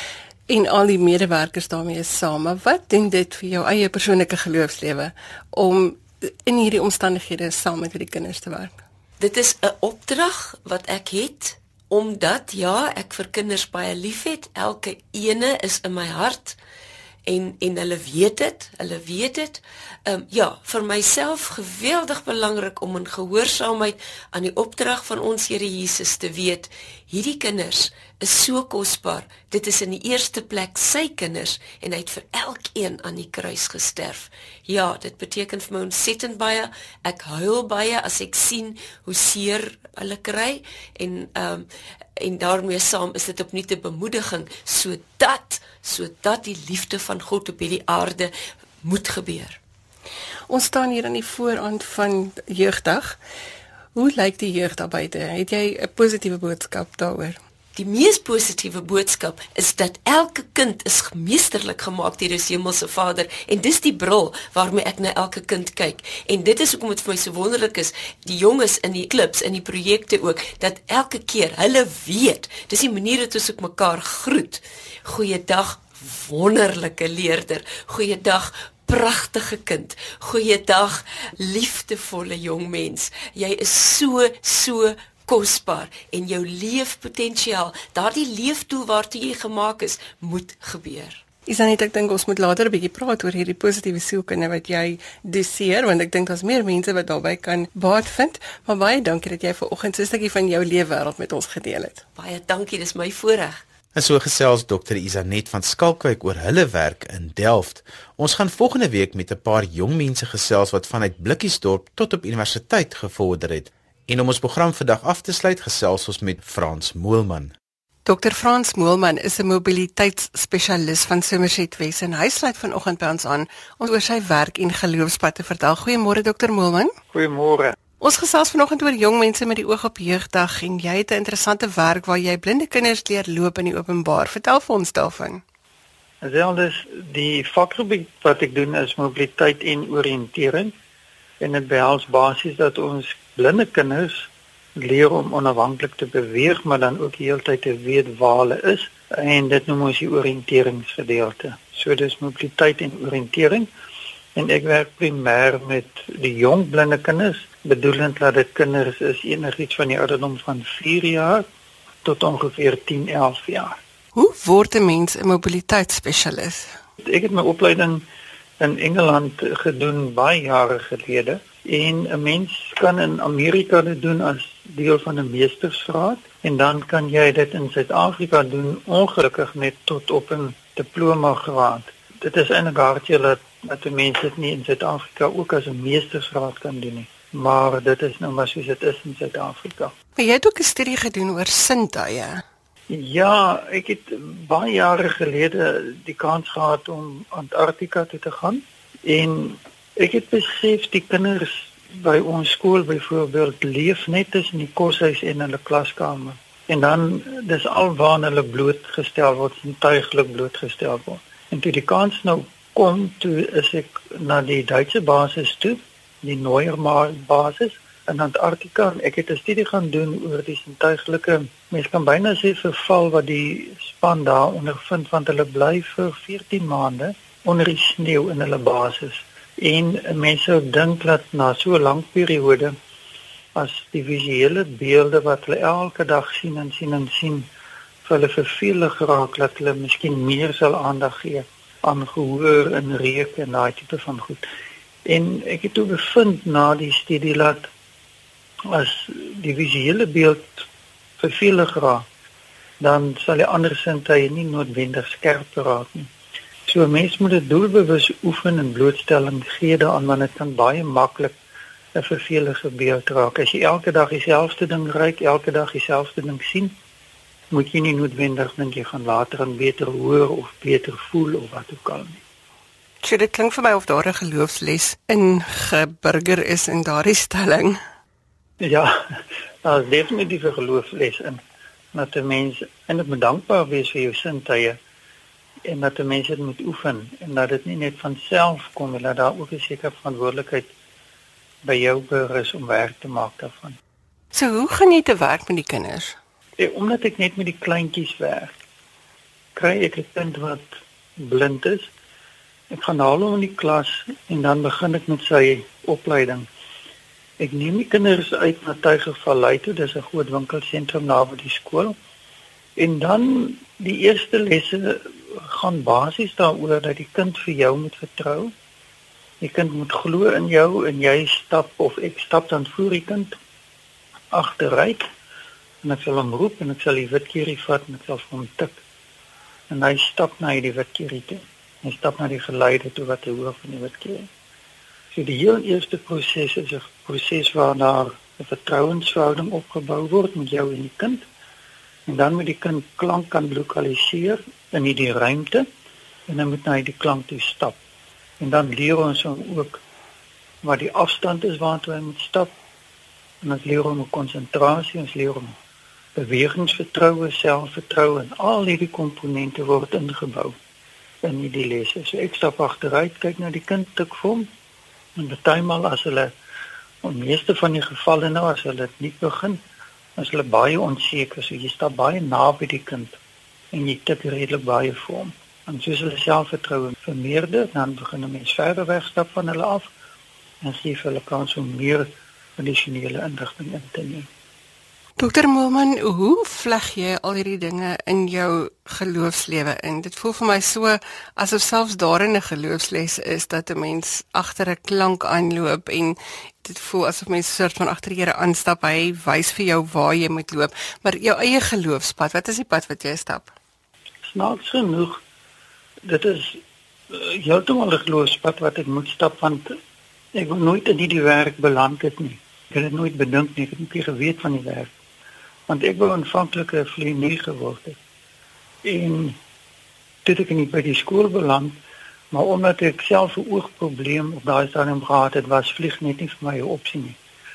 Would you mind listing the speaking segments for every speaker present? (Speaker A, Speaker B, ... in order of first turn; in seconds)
Speaker A: 0.5-8.8, 50.5-53.2, 54.0-57.4, 91.5-102.0, 118.1-127.0, 128.0-135.4, 164.2-166.7, 190.2-192.4, 273.0-277.8, 294.3-296.2, 385.2-403.5
Speaker B: 9.2-16.6, 17.3-41.7, 42.2-49.6, 57.8-91.2, 102.2-103.6
Speaker C: 104.0-117.5
Speaker D: 127.1-127.8, 136.2-140.7, 141.4-153.7, 154.4-161.5, 162.0-163.8, 167.0-168.0, 168.6-189.9, 192.9-232.8, 233.6-237.5, 238.1-244.4, 245.1-247.7, 248.7-250.7, 251.2-252.1, 252.8-256.1, 256.7-261.3, 261.9-266.8, 267.5-272.2, 278.6-278.9, 279.6-281.4, 281.9-284.8, 285.6-290.7, 291.6-293.8, 296.6-298.5, 299.6-301.9, 302.7-306.5, 307.4-311.9, 312.8-318.5, 319.4-323.4, 324.3-325.1, 325.8-328.8, 329.7-334.3, 335.1-341.2, 342.1-345.7, 346.3-347.8, 348.4-349.8, 350.6-352.5, 353.4-355.6, 356.1-360.6, 361.2-364.5, 365.2-366.3, 367.0-369.6, 370.2-373.2, 373.7-379.9, 380.6-384.3, 404.3-405.2, 406.0-406.6, 407.1-409.7, 410.4-414.9, 415.7-418.0, 418.8-419.4, 420.2-421.8, 422.3-427.2